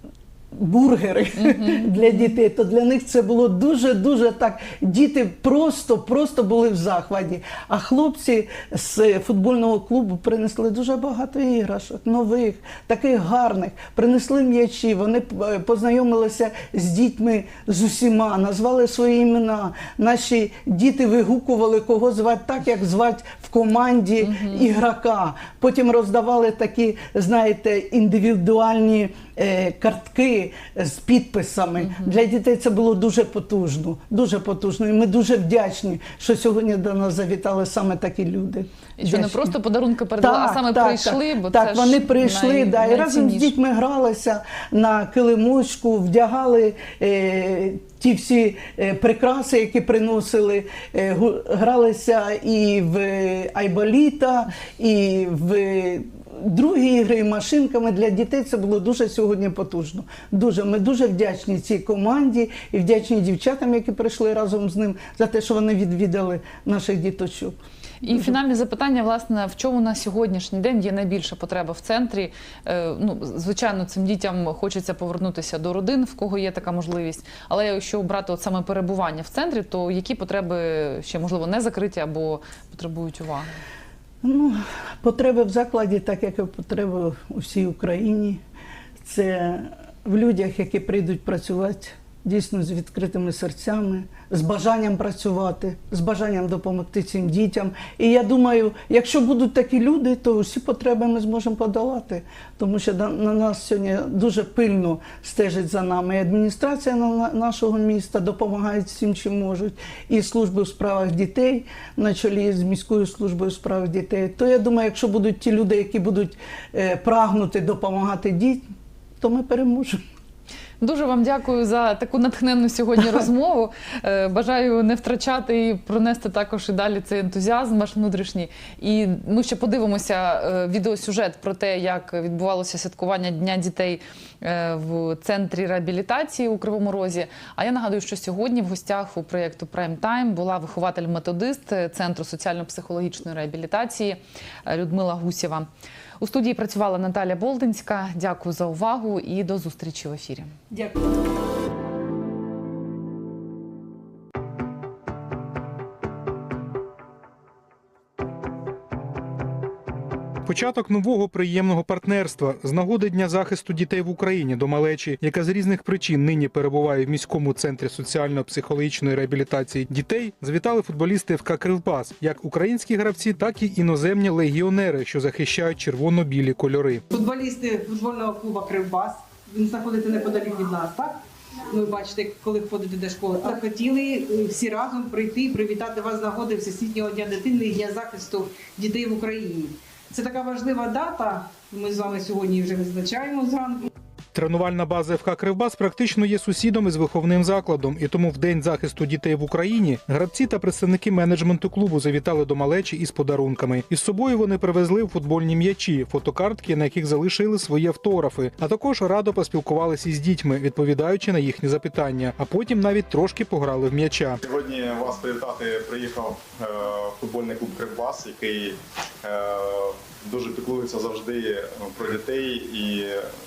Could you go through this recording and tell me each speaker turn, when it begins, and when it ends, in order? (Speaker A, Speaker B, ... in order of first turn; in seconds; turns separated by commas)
Speaker A: 0.5-39.5, Speaker B: 1.5-1.9, Speaker B: 24.2-24.6, Speaker B: 31.8-32.1, Speaker B: 39.0-43.5, Speaker A: 40.2-67.5, Speaker B: 68.0-83.5, Speaker A: 84.2-88.4, Speaker A: 89.0-118.6, Speaker A: 119.2-120.0, Speaker B: 120.8-145.7, Speaker B: 146.2-150.5, Speaker C: 160.4-177.0, Speaker D: 177.1-193.9, Speaker C: 194.3-214.4, Speaker E: 214.4-223.2